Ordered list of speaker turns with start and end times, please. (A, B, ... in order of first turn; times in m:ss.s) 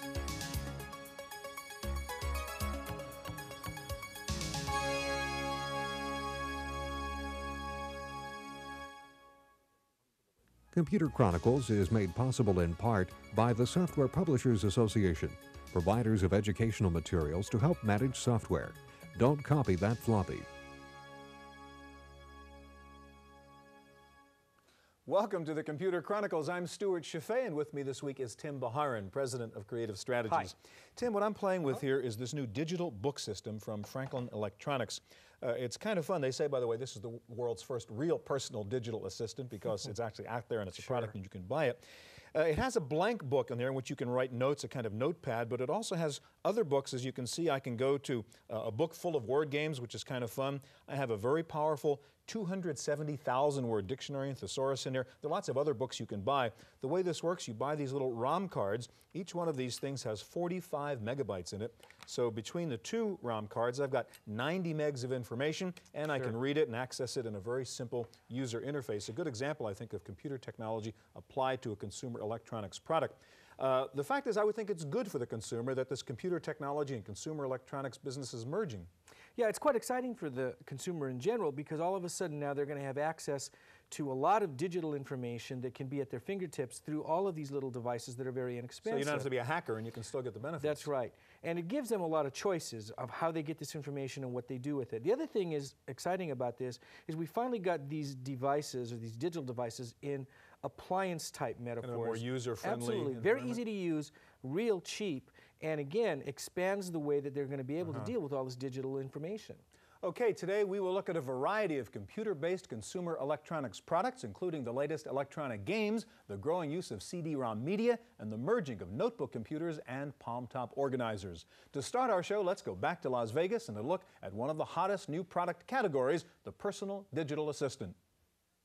0:10.7-0:20.4 A
0:25.0-1:18.9 B
1:19.4-1:29.3 C
1:28.8-1:30.9 B
1:30.6-1:49.6 C
1:41.8-1:43.6 B
1:47.8-1:48.1 B
1:50.0-2:08.0 B